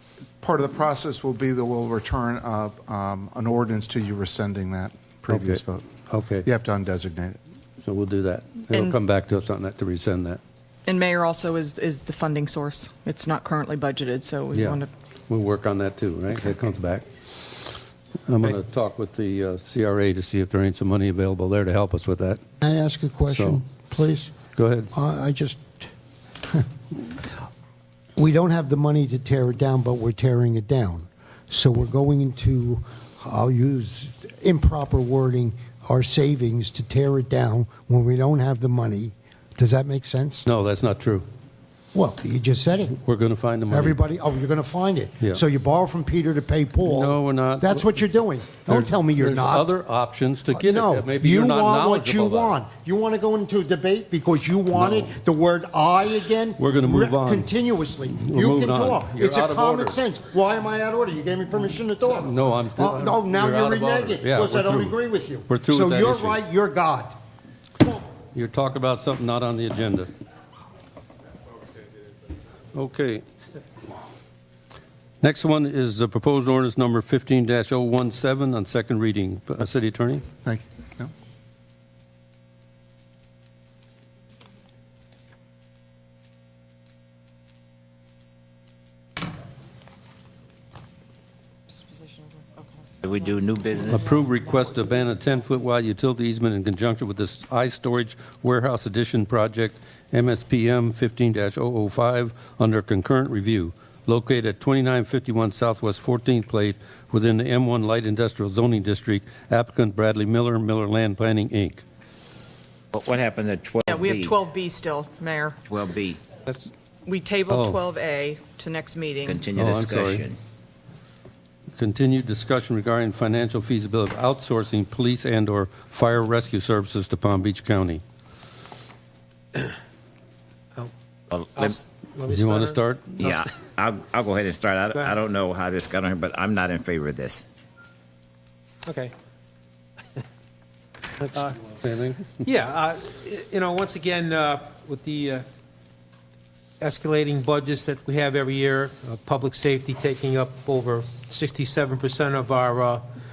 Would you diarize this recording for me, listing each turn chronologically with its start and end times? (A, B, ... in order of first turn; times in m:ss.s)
0:00.4-0:05.9 A
0:05.3-0:06.5 B
0:06.4-0:07.4 A
0:07.8-0:10.4 B
0:08.7-0:09.0 C
0:10.8-0:14.9 C
0:14.5-0:17.7 B
0:18.3-0:22.4 B
0:22.6-0:24.3 D
0:23.3-0:23.6 B
0:24.5-0:24.9 B
0:24.9-0:25.9 D
0:28.2-0:40.4 D
0:40.4-0:41.2 B
0:41.9-0:43.0 D
0:43.0-0:44.0 B
0:43.7-0:49.7 D
0:46.8-0:47.9 B
0:48.6-0:52.6 B
0:50.5-1:07.1 D
0:54.7-0:55.1 B
0:56.6-0:57.5 B
0:58.1-1:00.0 B
1:02.2-1:05.0 B
1:05.5-1:06.4 B
1:08.3-1:10.1 B
1:12.7-1:13.2 B
1:15.2-1:20.2 B
1:20.4-1:21.1 A
1:31.7-1:35.1 C
1:33.0-1:34.0 E
1:33.9-1:51.8 B
1:52.9-1:54.4 E
1:53.8-1:55.6 C
1:55.7-1:56.2 E
1:57.0-1:59.4 C
1:57.5-1:57.8 B
1:59.2-2:00.4 E
1:59.5-2:00.3 B
2:01.8-2:08.0 B
2:11.3-2:11.8 E
2:11.5-2:13.6 F
2:12.3-2:13.2 B
2:13.2-2:17.4 E
2:14.9-2:15.2 F
2:18.8-2:19.1 F
2:21.2-2:21.6 F
2:21.8-2:22.2 B
2:22.4-2:25.5 F
2:26.8-2:33.1 F